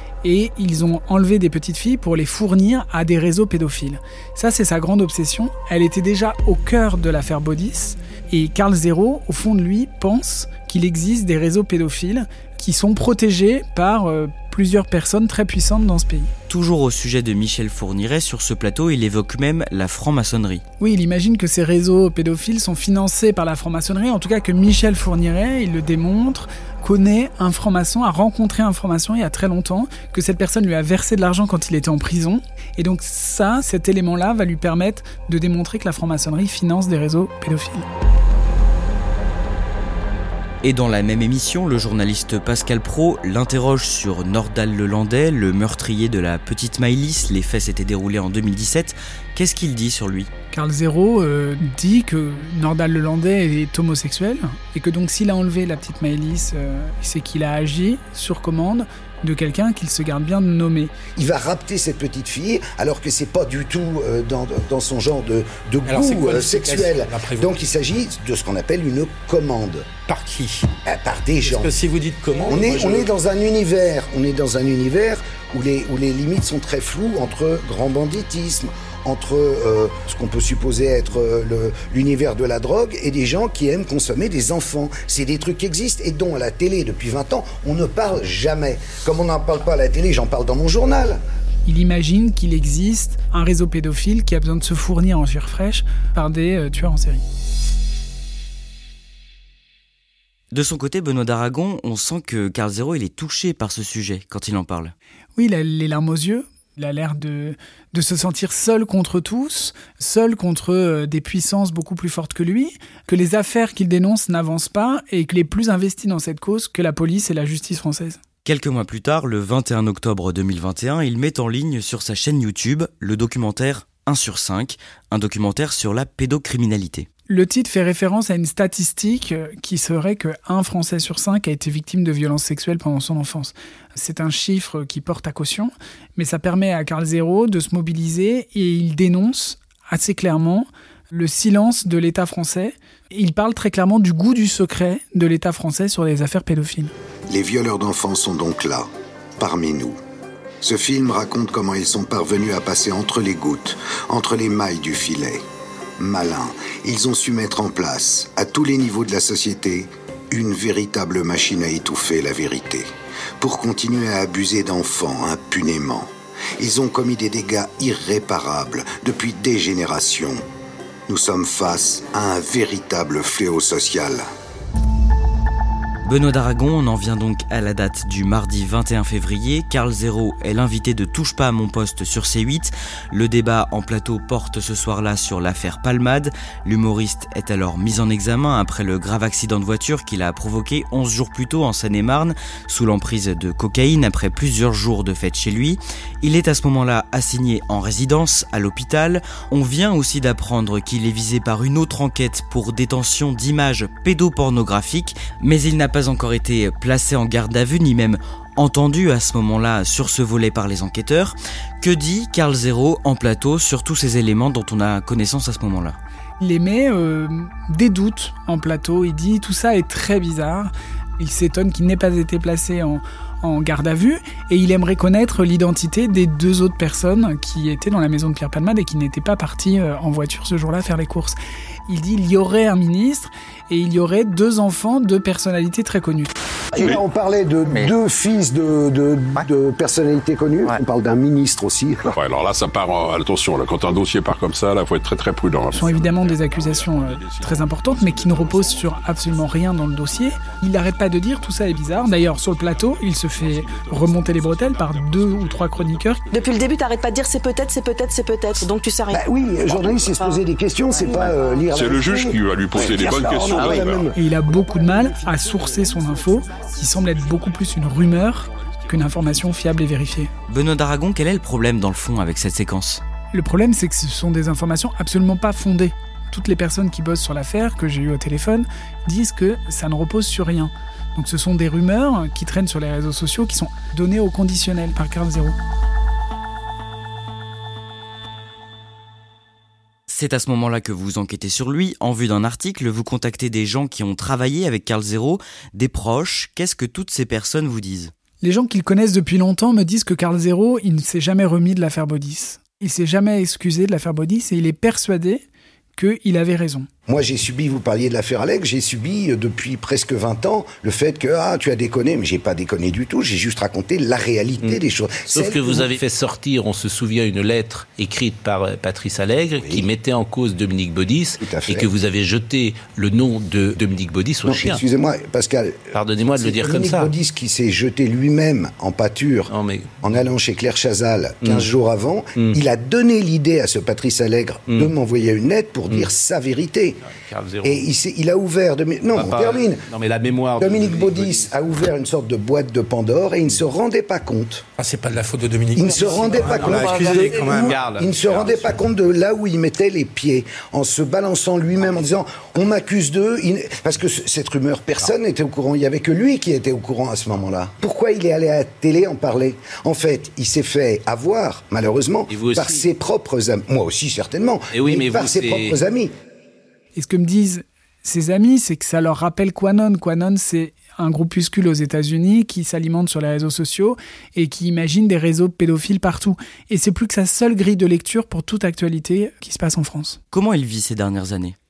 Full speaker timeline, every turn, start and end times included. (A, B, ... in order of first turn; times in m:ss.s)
0:00.2-0:16.3 A
0:16.5-0:20.6 B
0:20.8-0:37.9 A
0:40.6-0:50.3 B
0:50.5-1:00.9 A
1:01.2-1:09.9 C
1:05.9-1:07.6 D
1:10.1-1:10.7 D
1:10.8-1:11.8 C
1:11.4-1:13.1 D
1:12.5-1:31.2 C
1:31.7-1:37.2 A
1:40.5-1:44.9 B
1:45.4-1:58.2 A
1:58.4-2:07.1 B
2:07.3-2:26.9 A
2:27.3-2:30.0 C
2:30.6-2:35.4 C
2:36.0-2:50.4 C
2:51.1-2:54.2 C
2:56.0-3:36.0 B
3:36.4-3:51.4 A
3:51.9-3:56.3 A
3:56.7-4:02.2 C
4:02.1-4:09.6 E
4:05.7-4:16.3 A
4:10.2-4:10.4 E
4:11.6-4:16.4 E
4:16.3-4:20.4 F
4:19.1-4:24.2 C
4:21.6-4:24.1 E
4:24.1-4:30.3 A
4:27.0-4:27.5 E
4:28.7-4:29.5 E
4:30.5-4:33.0 B
4:33.3-4:45.6 A
4:50.1-4:58.1 B
4:58.4-5:05.4 A
5:06.0-5:06.9 A
5:07.1-5:16.0 C
5:14.6-5:24.8 G
5:21.4-5:21.9 C
5:24.4-5:37.0 C
5:25.9-5:27.1 G
5:29.5-5:30.0 G
5:37.1-5:37.9 G
5:37.6-5:39.9 C
5:39.1-5:41.5 G
5:40.6-5:44.6 C
5:44.8-5:47.8 D
5:45.7-6:06.1 C
5:45.9-5:48.7 G
6:02.3-6:02.8 G
6:04.7-6:05.8 G
6:07.0-6:20.2 A
6:20.3-6:21.6 B